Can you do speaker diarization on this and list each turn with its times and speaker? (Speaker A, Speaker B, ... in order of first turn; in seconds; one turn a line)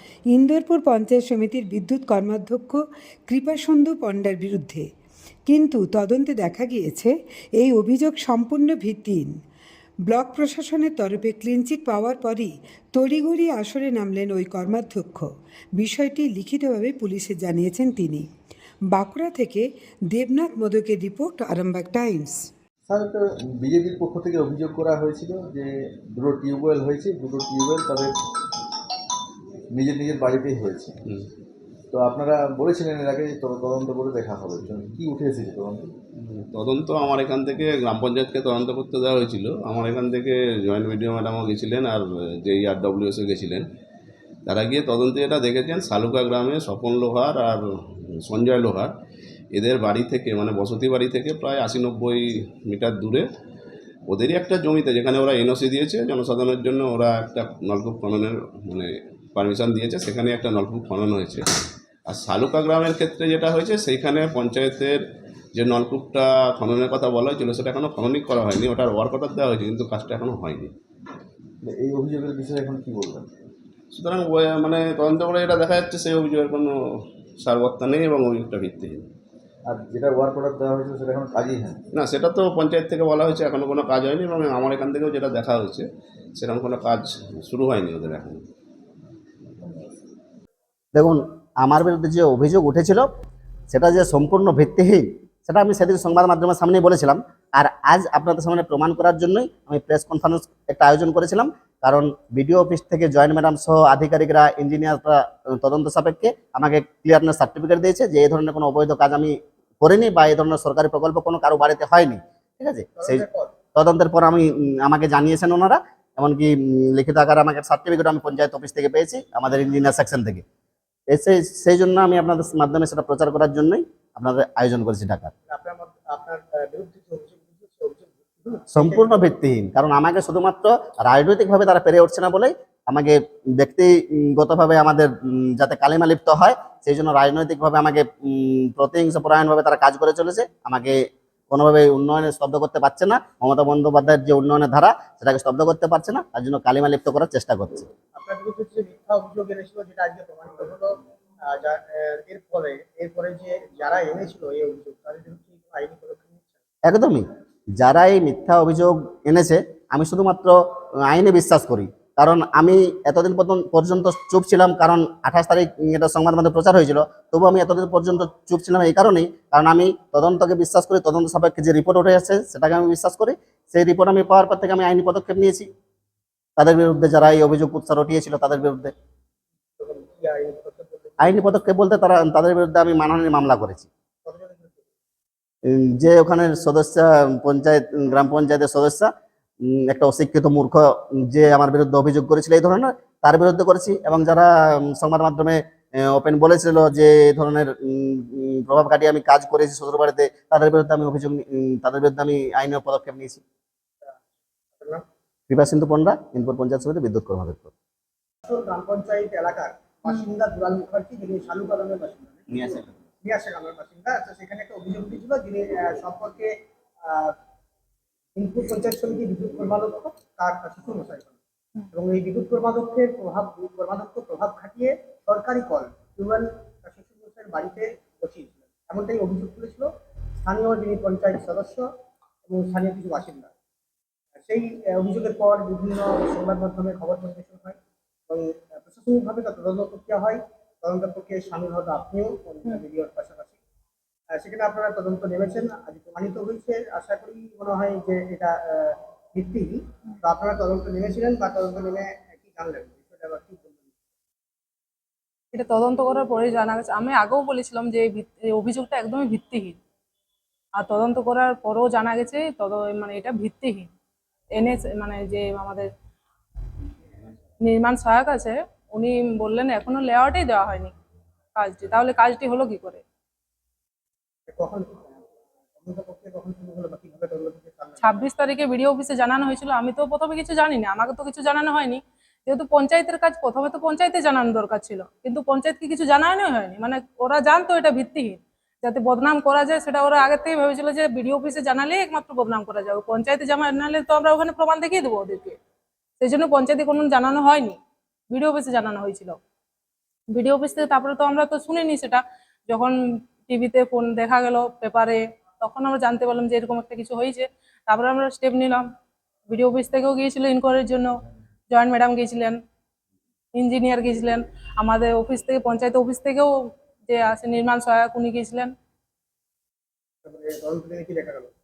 Speaker A: 0.3-4.9
Speaker A: 5.5-9.4
Speaker A: 10.1-18.3
Speaker A: 18.9-22.4
Speaker B: 22.9-28.1
Speaker B: 29.7-30.9
Speaker B: 31.9-35.9
Speaker C: 36.2-43.7
Speaker C: 44.5-48.9
Speaker C: 49.5-53.3
Speaker C: 54.1-61.5
Speaker C: 62.1-65.0
Speaker C: 65.5-70.7
Speaker B: 71.6-73.3
Speaker C: 73.9-79.0
Speaker B: 79.7-81.8
Speaker C: 81.9-88.4
Speaker D: 90.9-93.1
Speaker D: 93.7-113.2
Speaker E: 113.0-113.5
Speaker D: 113.8-120.4
Speaker D: 121.1-125.3
Speaker E: 125.5-129.1
Speaker D: 128.7-147.9
Speaker E: 148.1-156.4
Speaker D: 156.9-157.2
Speaker D: 157.8-175.7
Speaker D: 176.6-178.9
Speaker E: 179.8-181.5
Speaker D: 181.2-183.9
Speaker E: 184.2-184.8
Speaker D: 185.6-189.1
Speaker D: 189.6-203.4
Speaker E: 204.8-205.0
Speaker D: 205.5-207.7
Speaker E: 208.5-216.5
Speaker E: 217.1-217.3
Speaker E: 218.4-221.4
Speaker E: 221.9-229.9
Speaker E: 230.4-231.9
Speaker E: 232.5-233.5
Speaker E: 234.4-237.8
Speaker E: 238.3-243.6
Speaker E: 244.3-253.9
Speaker F: 255.5-259.8
Speaker F: 260.8-263.9
Speaker F: 264.6-265.9
Speaker F: 267.6-270.9
Speaker F: 271.6-273.0
Speaker E: 274.5-275.3
Speaker E: 275.8-278.3
Speaker F: 278.0-295.6
Speaker F: 296.2-297.8
Speaker F: 298.3-299.4
Speaker F: 300.3-302.9
Speaker F: 303.5-308.8
Speaker F: 309.5-312.6
Speaker F: 313.6-318.7
Speaker E: 320.2-321.5